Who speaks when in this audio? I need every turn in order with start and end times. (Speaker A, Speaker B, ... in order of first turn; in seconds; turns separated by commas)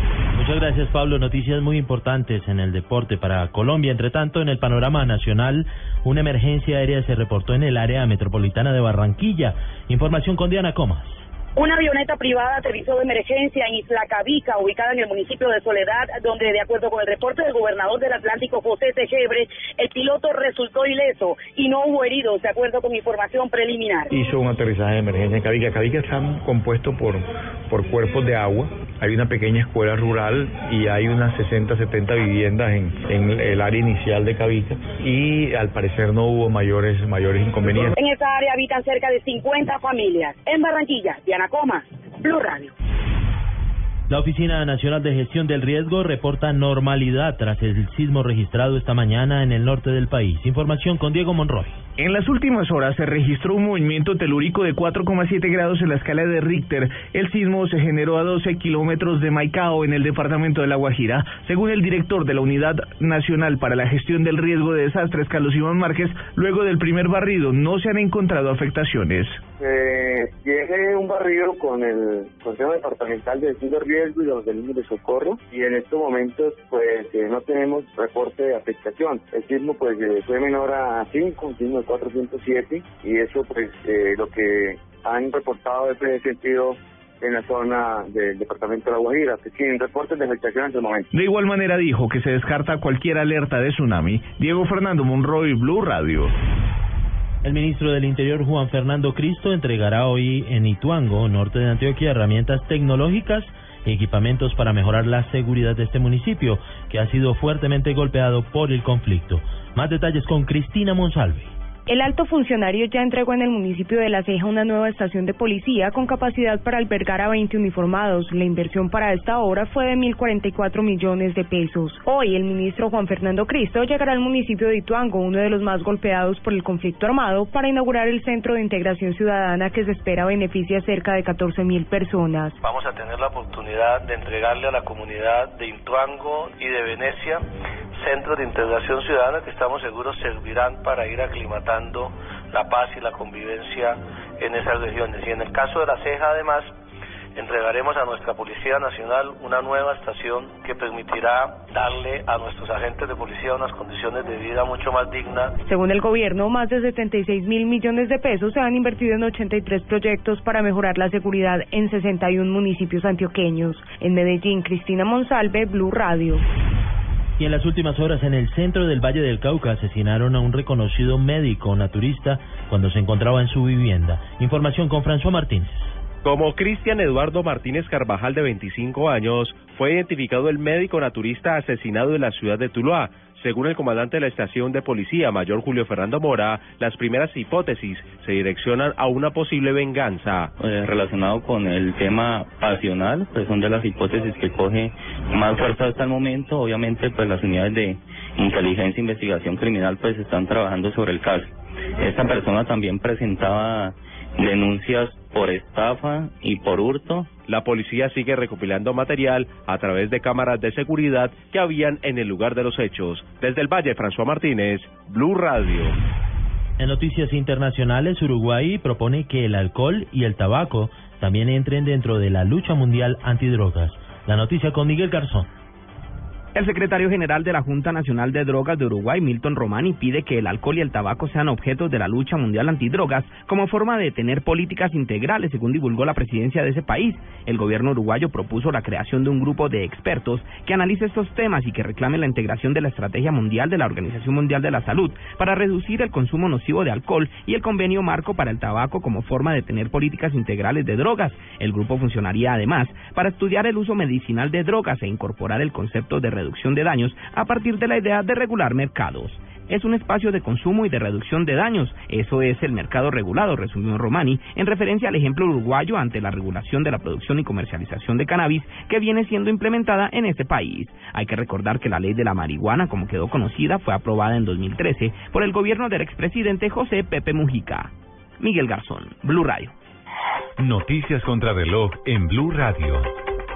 Speaker A: 0.3-11.2, Speaker B: 11.6-24.1, Speaker C: 24.1-27.1, Speaker C: 27.7-37.9, Speaker B: 37.7-42.7, Speaker A: 44.1-51.8, Speaker D: 52.0-69.4, Speaker E: 69.6-91.1, Speaker D: 91.1-96.3, Speaker A: 97.4-111.5, Speaker F: 111.9-132.6, Speaker G: 132.8-137.4, Speaker G: 138.0-146.7, Speaker G: 147.3-155.4, Speaker F: 155.6-166.4, Speaker A: 167.4-175.9, Speaker H: 176.2-190.5, Speaker I: 190.6-207.3, Speaker H: 207.5-215.9, Speaker A: 216.8-225.5, Speaker J: 226.5-279.7, Speaker K: 280.6-283.1